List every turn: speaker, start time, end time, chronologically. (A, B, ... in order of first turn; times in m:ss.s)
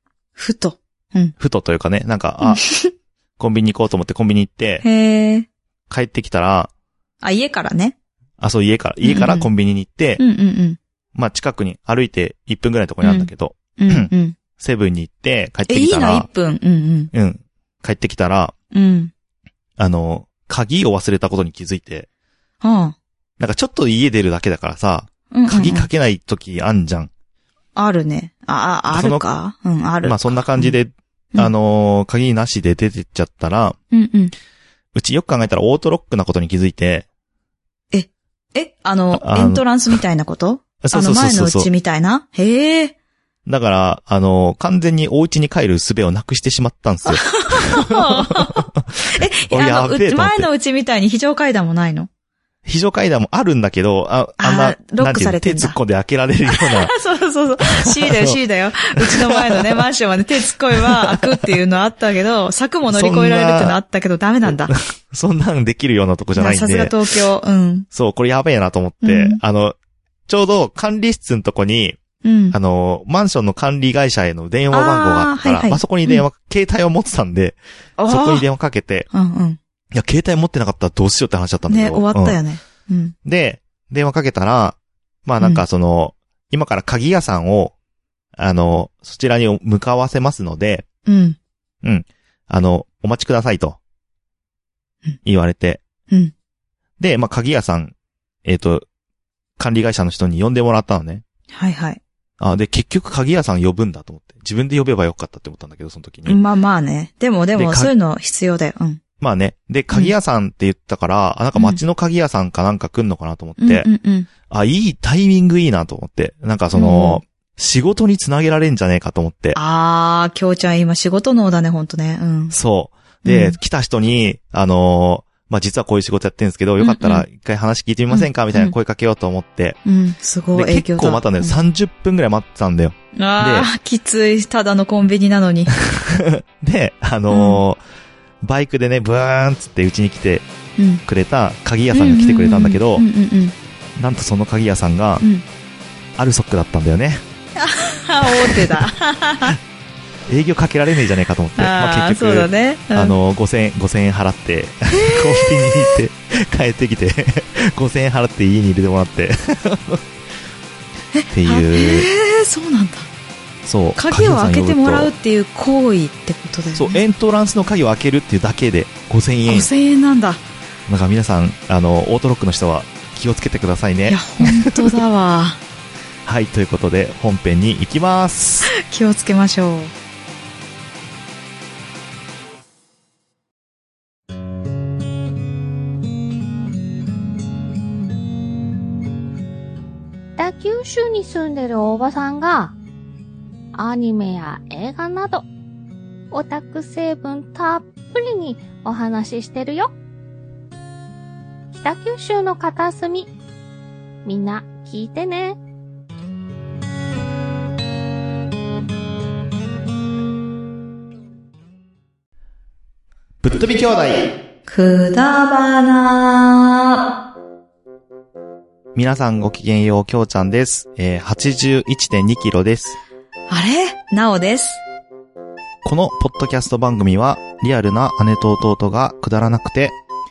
0:00.4-0:01.3 A
0:01.4-0:02.6 B
0:02.4-0:02.9 A
0:03.4-0:04.8 B
0:04.8-0:05.5 A
0:05.9-0:06.7 B
0:07.2-0:07.9 A
0:08.4-0:10.2 B
0:09.0-0:09.5 A
0:10.2-0:10.8 A
0:11.1-0:16.3 B
0:13.0-0:14.4 A
0:15.7-0:17.1 A
0:17.1-0:18.5 B
0:18.7-0:19.1 A
0:19.8-0:22.1 B
0:22.6-0:23.0 A
0:23.4-0:27.1 B
0:25.3-0:25.9 A
0:27.8-0:30.7 A
0:28.9-0:29.2 B
0:30.0-0:33.8 B
0:33.9-0:34.3 A
0:34.9-0:37.0 B
0:37.9-0:42.9 A
0:39.2-0:39.6 B
0:40.8-0:41.7 B
0:43.4-0:50.5 B
0:47.1-0:52.1 A
0:52.6-0:56.9 B
0:54.4-0:55.8 A
0:56.5-1:04.7 A
0:57.7-0:58.4 B
0:59.0-0:59.8 B
1:00.7-1:01.5 B
1:02.9-1:03.8 B
1:04.5-1:07.0 B
1:06.4-1:07.9 A
1:07.9-1:12.0 B
1:09.0-1:09.4 A
1:12.2-1:12.6 A
1:12.5-1:19.1 B
1:14.7-1:16.2 A
1:18.0-1:18.4 A
1:19.1-1:19.6 A
1:19.9-1:22.4 B
1:21.7-1:23.1 A
1:23.2-1:27.7 B
1:28.4-1:30.8 B
1:31.0-1:31.4 A
1:31.8-1:33.8 B
1:35.2-1:35.8 B
1:37.0-1:37.9 B
1:38.4-1:38.8 B
1:39.6-1:41.2 B
1:41.5-1:42.0 A
1:42.4-1:46.4 B
1:46.3-1:49.0 A
1:47.5-1:47.9 B
1:49.2-1:53.9 B
1:51.5-1:51.8 A
1:53.6-1:54.3 A
1:54.5-1:59.6 B
1:56.7-1:57.2 A
1:59.5-2:02.6 A
2:02.5-2:09.8 B
2:03.2-2:03.6 A
2:06.8-2:07.2 A
2:08.1-2:08.7 A
2:09.8-2:11.6 A
2:10.5-2:13.7 B
2:13.1-2:15.7 A
2:15.7-2:17.8 B
2:17.3-2:17.6 A
2:18.4-2:20.4 B
2:20.8-2:21.0 A
2:21.0-2:23.0 B
2:21.9-2:23.5 A
2:24.0-2:25.2 B
2:26.2-2:27.2 B
2:27.6-2:29.6 A
2:28.5-2:28.8 B
2:30.3-2:40.0 B
2:31.6-2:33.1 A
2:34.9-2:36.0 A
2:41.1-2:43.1 A
2:41.3-2:42.1 B
2:43.6-2:45.1 B
2:44.0-2:47.0 A
2:46.7-2:49.7 B
2:49.5-2:50.4 A
2:50.9-2:55.0 B
2:54.1-2:55.6 A
2:56.3-2:58.7 B
2:58.6-2:59.9 A
3:10.4-3:12.7 C
3:13.7-3:15.4 C
3:16.3-3:19.9 C
3:21.7-3:23.3 C
3:24.2-3:25.6 C
3:33.4-3:34.3 B
3:34.7-3:37.0 A
3:38.9-3:43.0 B
3:43.5-3:44.8 A
3:45.8-3:49.9 B